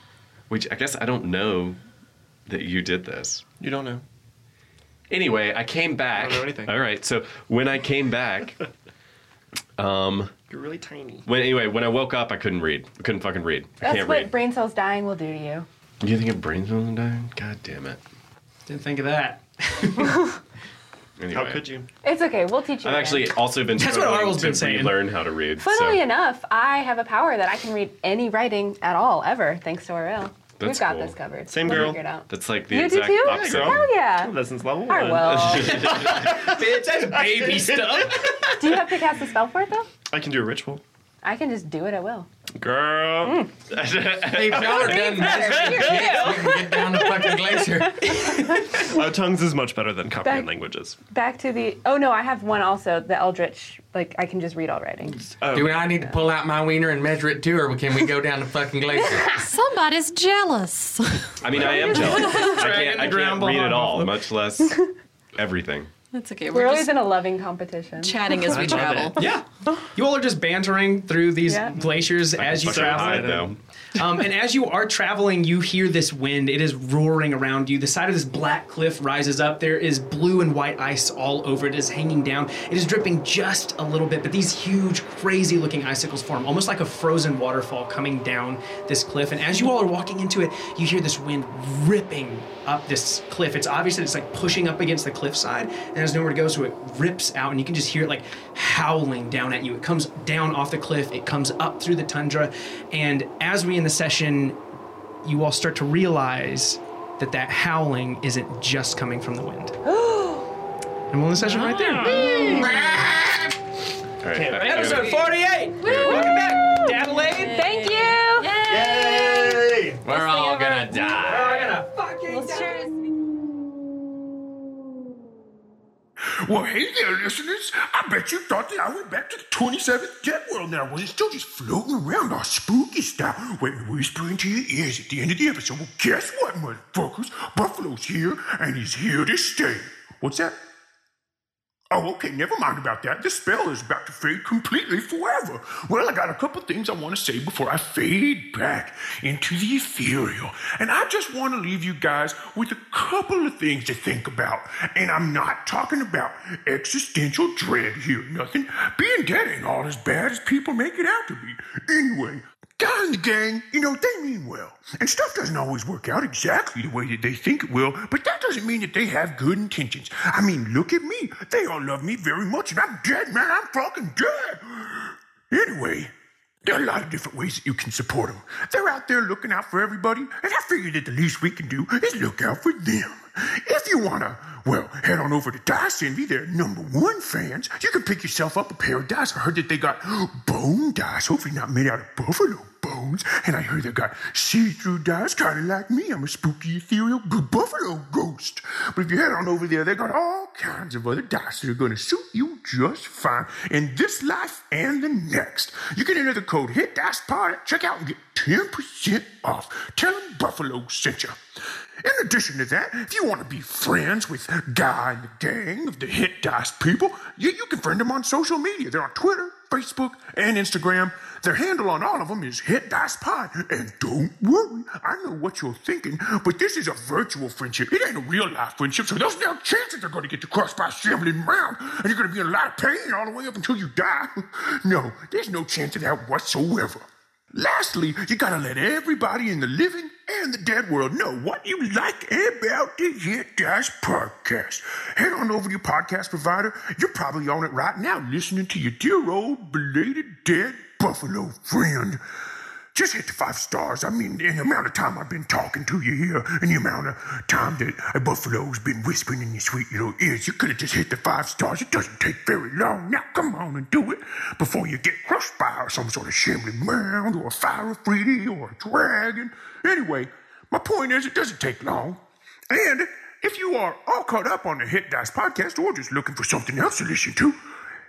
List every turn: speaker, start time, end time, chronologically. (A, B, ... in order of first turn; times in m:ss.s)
0:00.5-0:01.8 A
0:02.5-0:03.4 A
0:03.6-0:04.0 B
0:05.1-0:08.6 A
0:06.1-0:06.8 B
0:09.8-0:10.3 A
0:10.5-0:11.3 B
0:11.2-0:14.3 A
0:13.8-0:15.7 C
0:16.0-0:18.0 A
0:18.7-0:20.3 D
0:21.2-0:21.7 A
0:21.3-0:21.9 B
0:22.0-0:23.4 C
0:22.8-0:26.0 A
0:23.7-0:25.2 D
0:25.6-0:35.8 C
0:30.6-0:33.9 A
0:31.5-0:32.0 B
0:33.2-0:36.6 B
0:35.5-0:36.3 A
0:35.7-0:38.6 D
0:37.1-0:38.3 B
0:38.6-0:39.9 C
0:40.1-0:40.8 B
0:41.2-0:42.3 C
0:42.6-0:46.1 B
0:43.2-0:43.5 C
0:43.7-0:44.3 A
0:44.2-0:48.3 E
0:44.6-0:49.0 C
0:48.1-0:51.0 B
0:50.2-0:50.5 C
0:51.1-0:56.2 C
0:55.4-0:55.9 B
0:55.5-0:59.3 E
0:59.0-0:59.3 C
0:59.3-1:02.6 F
1:01.4-1:04.8 A
1:01.5-1:04.2 D
1:05.3-1:05.9 A
1:06.1-1:07.0 F
1:06.5-1:08.8 C
1:08.0-1:09.3 F
1:08.5-1:09.3 B
1:09.2-1:44.6 D
1:11.5-1:11.8 C
1:12.2-1:13.6 A
1:12.6-1:13.6 B
1:45.2-1:49.7 D
1:49.8-1:50.5 C
1:51.1-1:53.1 D
1:51.4-1:52.8 F
1:52.1-1:52.3 G
1:52.4-1:52.7 C
1:54.2-1:56.3 A
1:54.3-1:57.7 D
1:55.8-1:58.6 C
1:56.1-1:56.4 F
1:57.3-1:59.4 F
1:58.7-2:01.7 G
2:00.2-2:00.7 C
2:01.2-2:02.8 D
2:02.3-2:03.3 C
2:06.3-2:20.6 H
2:21.9-2:56.1 H
2:56.6-3:31.4 H
3:32.0-4:12.2 H
4:12.9-4:37.6 H